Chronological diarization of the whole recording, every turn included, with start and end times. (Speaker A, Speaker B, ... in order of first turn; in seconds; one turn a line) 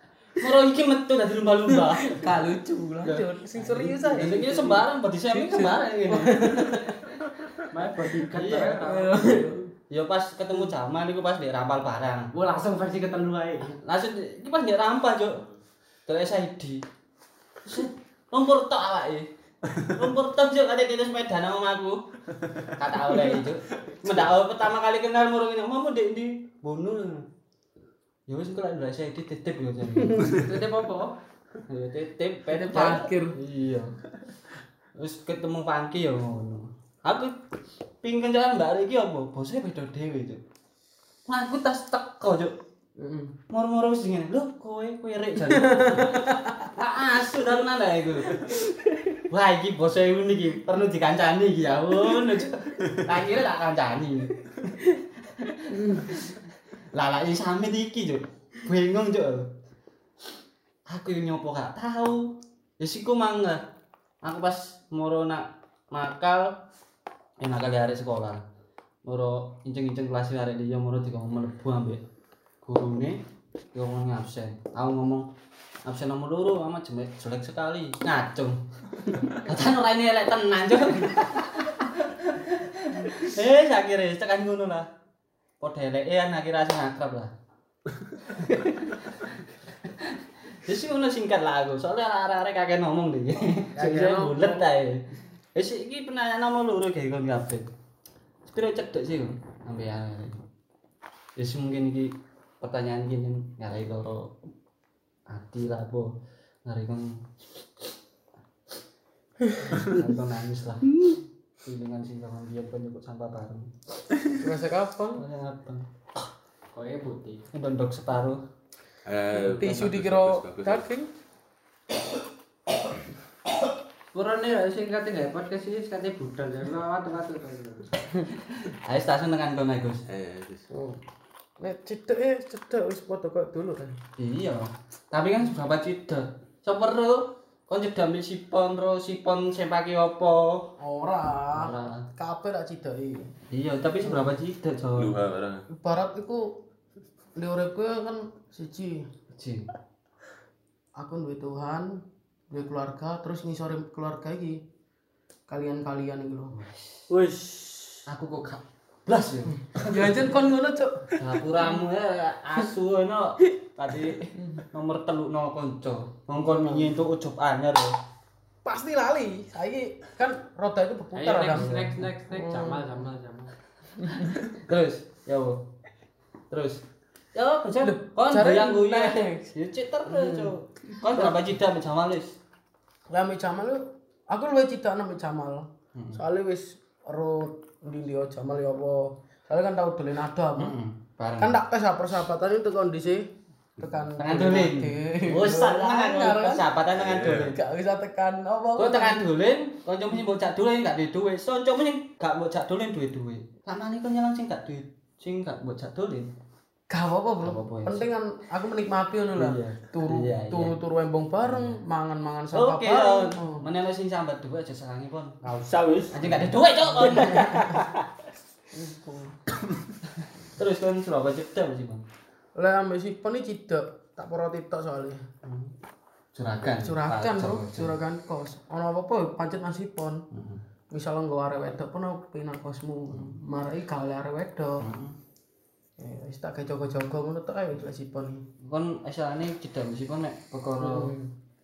Speaker A: 0.4-2.3
Speaker B: 1.7-7.1
Speaker A: 3.0-6.9
Speaker C: 7.7-9.5
Speaker A: 8.3-8.9
Speaker B: 8.8-9.7
Speaker A: 9.9-12.3
Speaker C: 12.3-13.8
Speaker A: 13.8-15.4
Speaker A: 16.1-16.8
Speaker A: 17.6-22.0
Speaker A: 22.7-27.3
Speaker A: 28.3-30.3
Speaker B: 30.1-30.4
Speaker C: 30.3-31.2
Speaker A: 31.7-33.9
Speaker B: 32.5-33.3
Speaker A: 35.0-37.4
Speaker A: 38.0-40.4
Speaker A: 41.3-42.6
Speaker B: 43.0-43.3
Speaker A: 43.5-48.5
Speaker B: 45.4-46.7
Speaker A: 49.3-56.4
Speaker B: 55.7-56.2
Speaker A: 56.9-59.5
Speaker A: 60.9-63.6
Speaker A: 64.2-66.6
Speaker A: 67.4-68.4
Speaker A: 69.0-72.0
Speaker A: 72.6-75.3
Speaker A: 75.8-84.9
Speaker A: 85.6-87.3
Speaker A: 88.3-97.7
Speaker B: 93.8-94.7
Speaker A: 98.4-100.4
Speaker A: 101.4-104.3
Speaker A: 105.3-106.1
Speaker A: 106.6-107.3
Speaker A: 109.8-110.9
Speaker A: 111.6-113.7
Speaker B: 114.4-115.2
Speaker A: 115.2-115.8
Speaker C: 116.7-117.5
Speaker A: 117.5-118.4
Speaker D: 119.0-120.9
Speaker B: 119.4-121.1
Speaker C: 124.1-127.9
Speaker A: 128.4-130.0
Speaker D: 130.1-130.7
Speaker B: 130.7-131.0
Speaker B: 131.6-134.0
Speaker A: 134.2-140.7
Speaker B: 140.8-143.3
Speaker A: 141.5-142.1
Speaker A: 143.5-145.2
Speaker D: 144.9-145.7
Speaker B: 145.7-146.5
Speaker B: 147.3-149.1
Speaker A: 149.3-149.7
Speaker B: 150.9-154.6
Speaker B: 155.5-156.6
Speaker A: 156.5-157.0
Speaker E: 157.1-158.1
Speaker A: 158.1-160.2
Speaker B: 159.7-161.8
Speaker A: 161.1-168.0
Speaker B: 166.3-167.0
Speaker B: 168.6-173.1
Speaker C: 171.1-173.5
Speaker A: 171.5-172.1
Speaker B: 174.0-174.3
Speaker A: 174.3-175.7
Speaker A: 176.5-176.8
Speaker A: 177.3-182.3
Speaker B: 177.8-179.5
Speaker B: 180.1-180.5
Speaker B: 183.1-190.7
Speaker A: 185.9-186.2
Speaker A: 190.6-191.6
Speaker B: 191.4-196.7
Speaker A: 194.2-197.6
Speaker D: 196.9-197.5
Speaker B: 197.5-199.2
Speaker A: 198.8-206.3
Speaker B: 206.9-213.6
Speaker A: 207.4-208.1
Speaker A: 209.3-210.8
Speaker A: 211.4-211.8
Speaker A: 212.5-215.4
Speaker E: 215.4-216.4
Speaker A: 216.1-217.8
Speaker E: 217.0-218.0
Speaker B: 218.7-219.3
Speaker A: 220.5-222.1
Speaker B: 222.5-225.2
Speaker A: 225.4-225.7
Speaker A: 226.3-227.9
Speaker B: 226.7-230.2
Speaker A: 230.3-230.6
Speaker B: 230.9-234.9
Speaker A: 233.1-233.3
Speaker A: 234.8-235.2
Speaker B: 236.0-238.4
Speaker A: 238.6-241.1
Speaker B: 240.8-241.3